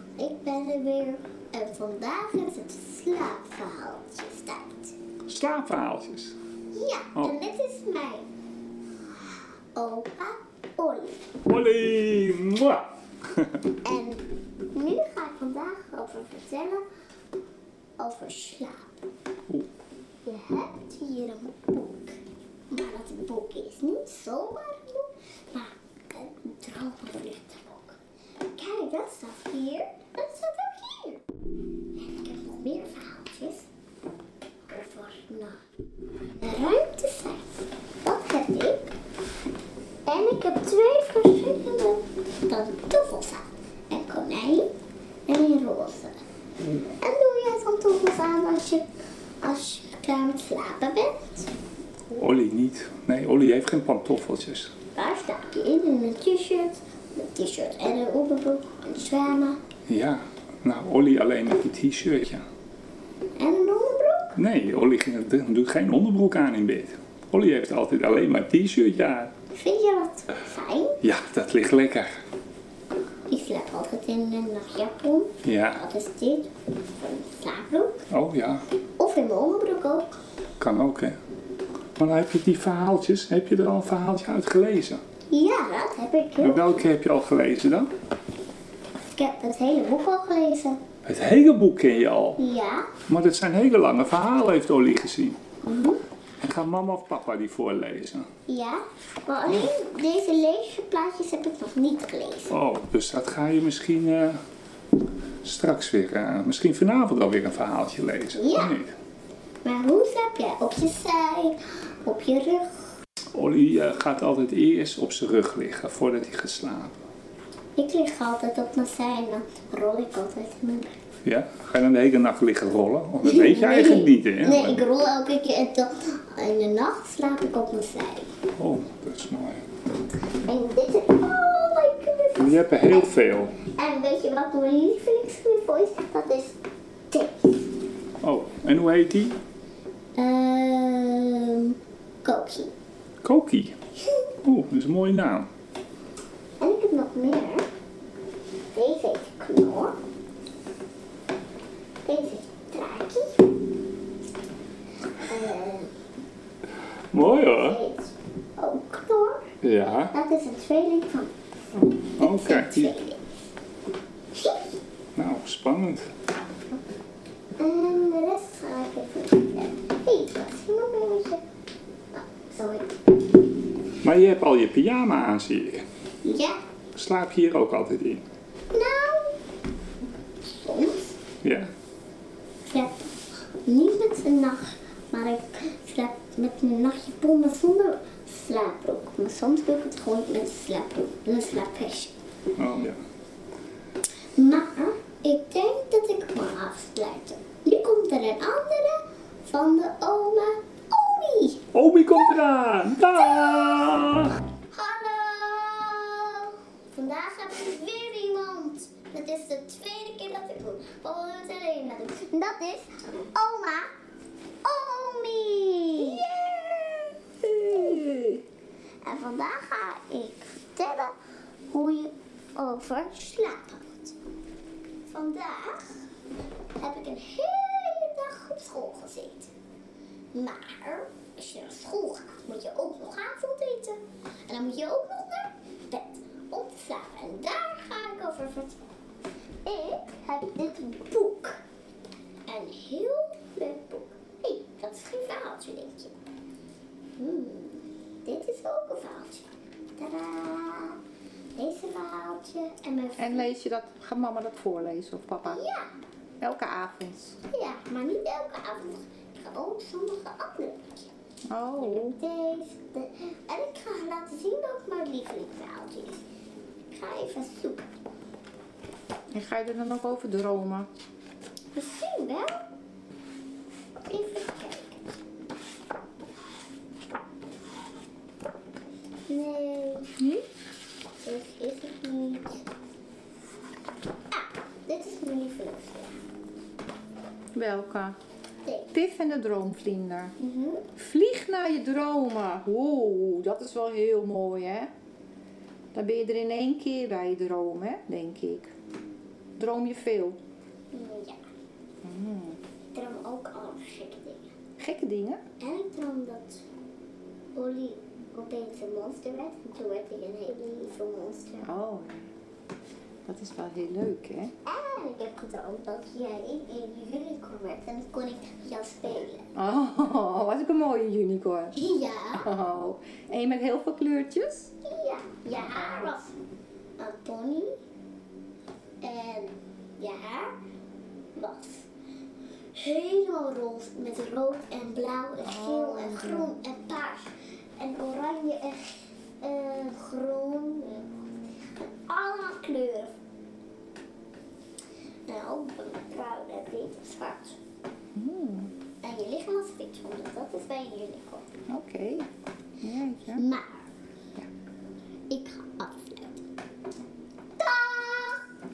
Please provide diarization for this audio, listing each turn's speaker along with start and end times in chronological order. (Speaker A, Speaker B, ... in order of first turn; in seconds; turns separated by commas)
Speaker A: 0.2-4.9, Speaker B: 5.3-6.3, Speaker A: 6.7-8.2, Speaker A: 9.7-11.2, Speaker B: 11.4-12.8, Speaker A: 13.8-16.8, Speaker A: 18.0-19.0, Speaker A: 20.2-22.2, Speaker A: 22.7-28.0, Speaker A: 28.5-31.2, Speaker A: 31.9-33.7, Speaker A: 34.6-35.6, Speaker A: 36.3-38.9, Speaker A: 40.0-44.7, Speaker A: 45.3-46.1, Speaker A: 46.8-48.8, Speaker A: 49.4-51.5, Speaker B: 52.1-54.7, Speaker A: 54.9-59.6, Speaker B: 59.9-62.4, Speaker A: 63.4-64.3, Speaker B: 64.3-69.3, Speaker A: 69.5-71.0, Speaker B: 71.0-72.2, Speaker A: 73.3-78.0, Speaker B: 75.4-75.8, Speaker B: 78.1-78.6, Speaker A: 79.0-80.1, Speaker B: 80.6-81.2, Speaker B: 82.0-85.0, Speaker A: 85.3-86.8, Speaker B: 86.4-87.9, Speaker A: 89.1-90.8, Speaker B: 91.0-92.4, Speaker A: 92.4-92.9, Speaker B: 93.1-95.4, Speaker A: 95.6-96.0, Speaker B: 96.4-98.3, Speaker A: 98.5-102.5, Speaker B: 102.5-104.4, Speaker B: 105.4-108.9, Speaker A: 108.3-108.8, Speaker A: 109.6-112.7, Speaker B: 113.3-117.0, Speaker A: 117.8-121.0, Speaker B: 121.2-124.8, Speaker A: 123.2-128.3, Speaker B: 128.6-129.6, Speaker A: 130.4-136.6, Speaker B: 132.4-133.5, Speaker A: 137.1-137.7, Speaker B: 138.2-139.4, Speaker A: 140.2-142.7, Speaker B: 143.2-143.7, Speaker B: 144.4-145.5, Speaker A: 146.6-147.7, Speaker A: 148.7-150.0, Speaker A: 152.0-153.5, Speaker A: 155.2-155.9, Speaker B: 157.1-157.8, Speaker A: 157.5-159.4, Speaker B: 159.6-160.1, Speaker A: 160.1-161.3, Speaker B: 162.2-162.9, Speaker A: 162.2-163.2, Speaker A: 164.3-164.7, Speaker B: 165.2-166.0, Speaker A: 167.6-171.4, Speaker A: 172.1-172.9, Speaker B: 174.0-175.8, Speaker A: 176.2-176.6, Speaker B: 176.9-178.2, Speaker A: 178.7-179.4, Speaker A: 180.4-181.2, Speaker B: 181.4-181.7, Speaker A: 182.6-192.1, Speaker B: 192.6-193.0, Speaker A: 194.3-201.6, Speaker B: 201.7-204.3, Speaker A: 203.3-203.7, Speaker A: 204.7-213.9, Speaker A: 214.6-216.6, Speaker C: 216.0-216.6, Speaker C: 217.6-218.4, Speaker A: 217.6-218.1, Speaker A: 219.0-221.1, Speaker A: 221.7-224.1, Speaker A: 225.1-226.0, Speaker A: 226.8-229.5, Speaker A: 230.3-238.8, Speaker A: 239.6-241.6, Speaker A: 242.5-246.1, Speaker A: 247.2-251.0, Speaker A: 251.5-253.5, Speaker C: 253.2-255.6, Speaker A: 255.4-255.9, Speaker C: 256.4-257.4, Speaker A: 257.5-261.1, Speaker C: 261.5-262.1, Speaker A: 261.8-266.2, Speaker A: 266.9-267.9, Speaker C: 269.3-270.9, Speaker A: 271.7-272.7, Speaker A: 274.0-275.0, Speaker A: 279.3-280.1, Speaker A: 281.2-282.6, Speaker A: 284.3-286.1, Speaker C: 287.5-288.1, Speaker A: 288.6-288.9, Speaker C: 288.9-290.3, Speaker A: 290.4-290.9, Speaker C: 291.0-294.9, Speaker C: 295.9-298.7, Speaker C: 299.6-300.4, Speaker A: 300.9-301.4, Speaker C: 302.0-302.6, Speaker A: 302.9-304.5, Speaker C: 304.8-305.4, Speaker A: 305.6-306.6, Speaker A: 307.5-311.7, Speaker C: 311.6-312.2, Speaker C: 313.2-314.5, Speaker A: 314.6-319.5, Speaker C: 319.6-321.8, Speaker A: 321.7-322.5, Speaker C: 322.4-324.7, Speaker A: 324.8-326.3, Speaker A: 327.0-327.7, Speaker A: 329.0-330.5, Speaker A: 331.3-331.9, Speaker A: 332.7-341.2, Speaker C: 335.4-336.5, Speaker A: 342.1-343.1, Speaker A: 345.3-347.6, Speaker C: 348.1-348.7, Speaker A: 349.0-351.4, Speaker C: 351.7-352.3, Speaker C: 352.8-353.4, Speaker A: 353.4-353.9, Speaker A: 355.3-356.4, Speaker A: 357.6-358.4